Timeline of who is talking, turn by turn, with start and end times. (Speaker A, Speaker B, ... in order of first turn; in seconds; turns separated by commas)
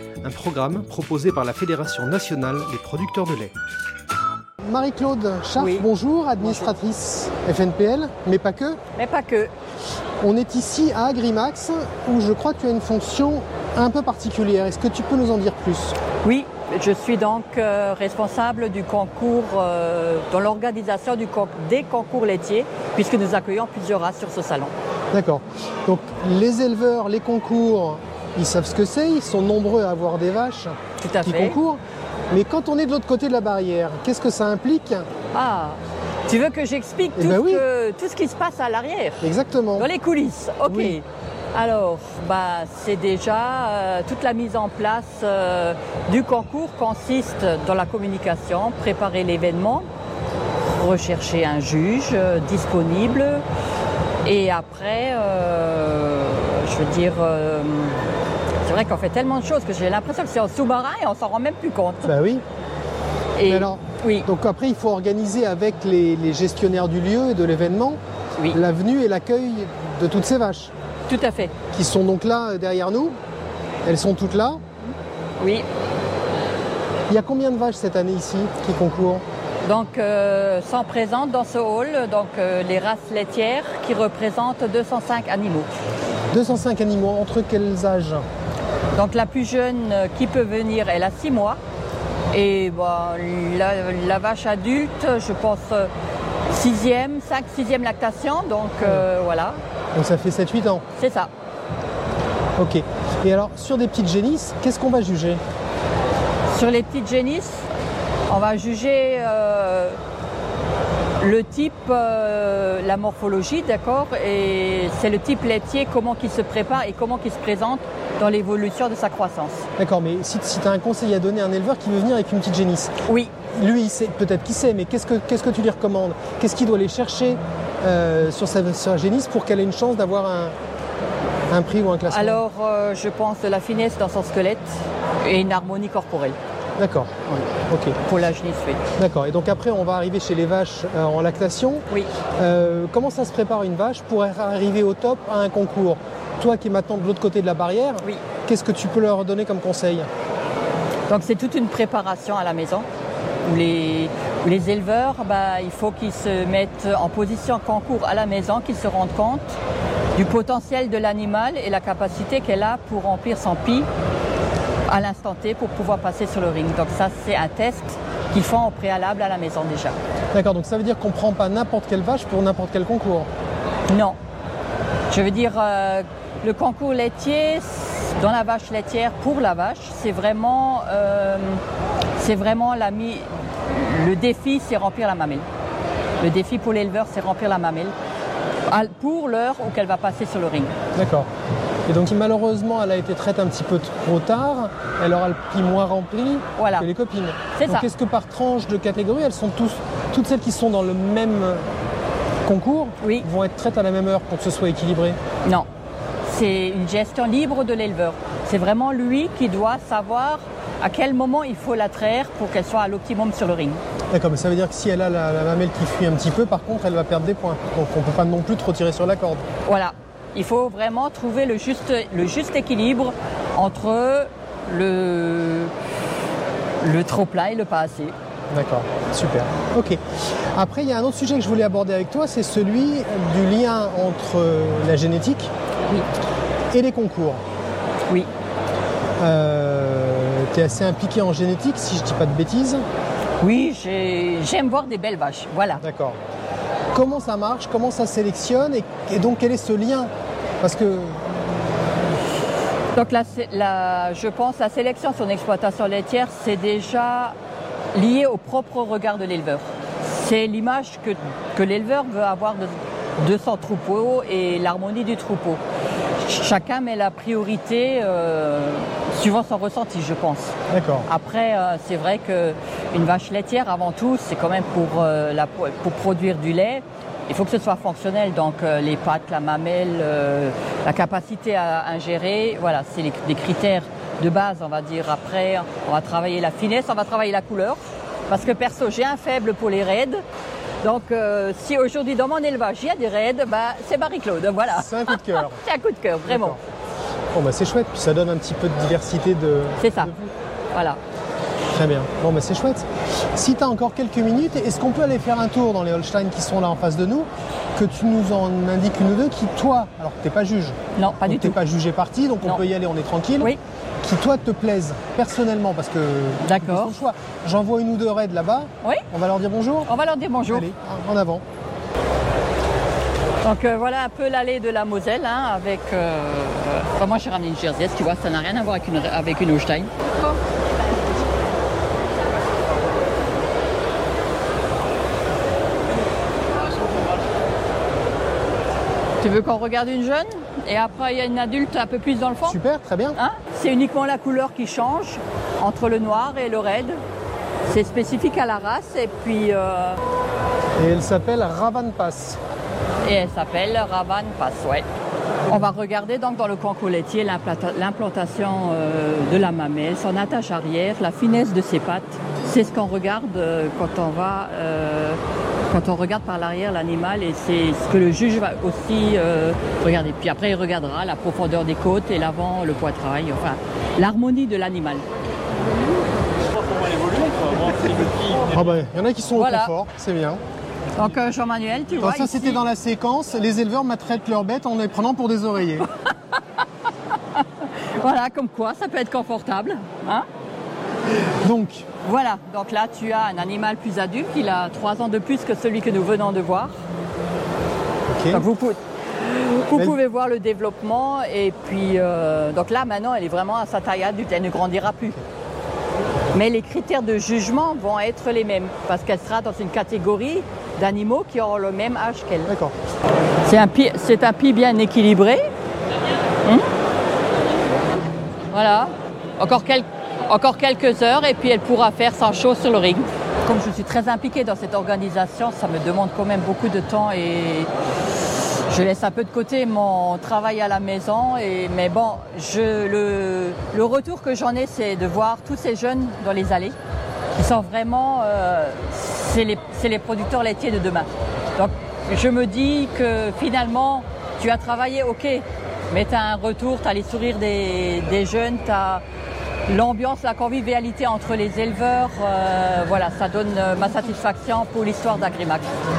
Speaker A: 0.2-3.5, Speaker A: 4.6-8.8, Speaker B: 5.6-5.9, Speaker B: 6.4-6.7, Speaker B: 9.0-9.5, Speaker A: 10.2-16.0, Speaker B: 16.2-24.7, Speaker A: 25.1-35.1, Speaker B: 31.0-31.6, Speaker B: 35.3-39.2, Speaker A: 37.2-37.6, Speaker A: 39.2-39.9, Speaker B: 39.8-41.0, Speaker A: 40.7-41.0, Speaker B: 41.5-49.9, Speaker B: 50.6-53.4, Speaker B: 54.2-58.1, Speaker B: 58.7-62.1, Speaker A: 62.0-62.4, Speaker B: 63.4-64.3, Speaker A: 63.5-68.0, Speaker A: 68.5-70.7, Speaker B: 71.1-71.5, Speaker A: 71.7-73.1, Speaker A: 73.8-74.6, Speaker B: 75.4-75.7, Speaker A: 77.1-79.2, Speaker B: 79.6-85.7, Speaker A: 86.3-88.2, Speaker B: 88.9-91.6, Speaker B: 92.3-95.9, Speaker B: 96.5-99.6, Speaker A: 100.0-100.8, Speaker B: 101.0-101.3, Speaker A: 102.6-105.4, Speaker B: 106.5-107.7, Speaker B: 108.3-110.0, Speaker B: 111.2-119.7, Speaker A: 119.8-122.9, Speaker B: 123.1-123.3, Speaker A: 123.5-130.6, Speaker A: 131.5-132.4, Speaker B: 132.1-136.4, Speaker A: 136.8-137.1, Speaker A: 137.7-138.0, Speaker B: 138.1-138.8, Speaker A: 139.0-141.8, Speaker A: 142.4-150.1, Speaker B: 151.1-152.9, Speaker B: 153.5-159.6, Speaker B: 160.2-163.9, Speaker B: 164.9-169.9, Speaker A: 170.3-173.3, Speaker B: 173.9-174.2, Speaker B: 175.1-181.6, Speaker B: 182.2-185.4, Speaker B: 186.2-187.9, Speaker B: 188.7-190.7, Speaker A: 191.0-191.3, Speaker A: 191.9-201.7, Speaker B: 196.6-196.9, Speaker B: 197.5-197.9, Speaker A: 202.4-205.2, Speaker B: 203.0-203.3, Speaker B: 206.3-213.8, Speaker A: 214.1-219.4, Speaker B: 219.7-225.7, Speaker B: 226.8-228.1, Speaker A: 228.5-230.0, Speaker A: 230.6-235.5, Speaker A: 236.7-237.4, Speaker A: 239.2-242.8, Speaker B: 243.4-245.8, Speaker A: 245.8-246.2, Speaker A: 246.9-250.1, Speaker A: 250.6-251.8, Speaker B: 252.9-257.4, Speaker B: 257.9-265.6, Speaker B: 266.2-270.5, Speaker A: 270.7-271.1, Speaker B: 271.1-290.2, Speaker B: 290.8-296.6, Speaker A: 294.7-295.6, Speaker A: 296.3-296.6, Speaker A: 297.3-300.3, Speaker B: 299.8-300.1, Speaker B: 300.7-301.0, Speaker A: 301.7-313.5, Speaker B: 311.0-311.6, Speaker A: 314.0-319.9, Speaker B: 316.4-316.9, Speaker B: 319.9-320.6, Speaker A: 320.5-321.4, Speaker B: 323.4-329.9, Speaker B: 339.2-342.6, Speaker A: 342.5-343.2, Speaker B: 343.2-347.0, Speaker B: 347.7-350.0, Speaker A: 350.8-352.4, Speaker B: 353.1-354.9, Speaker B: 355.5-365.2, Speaker B: 365.7-375.1, Speaker A: 378.4-380.4, Speaker B: 379.4-379.7, Speaker B: 381.0-382.6, Speaker A: 382.0-385.9, Speaker B: 387.4-390.3, Speaker A: 391.4-391.9, Speaker B: 392.0-396.8, Speaker A: 398.1-398.4, Speaker B: 398.3-405.2, Speaker A: 399.7-400.0, Speaker B: 406.3-412.5, Speaker A: 412.5-412.7, Speaker B: 413.4-415.4, Speaker B: 418.5-427.7, Speaker B: 428.7-436.8, Speaker B: 437.4-449.0, Speaker B: 449.7-455.7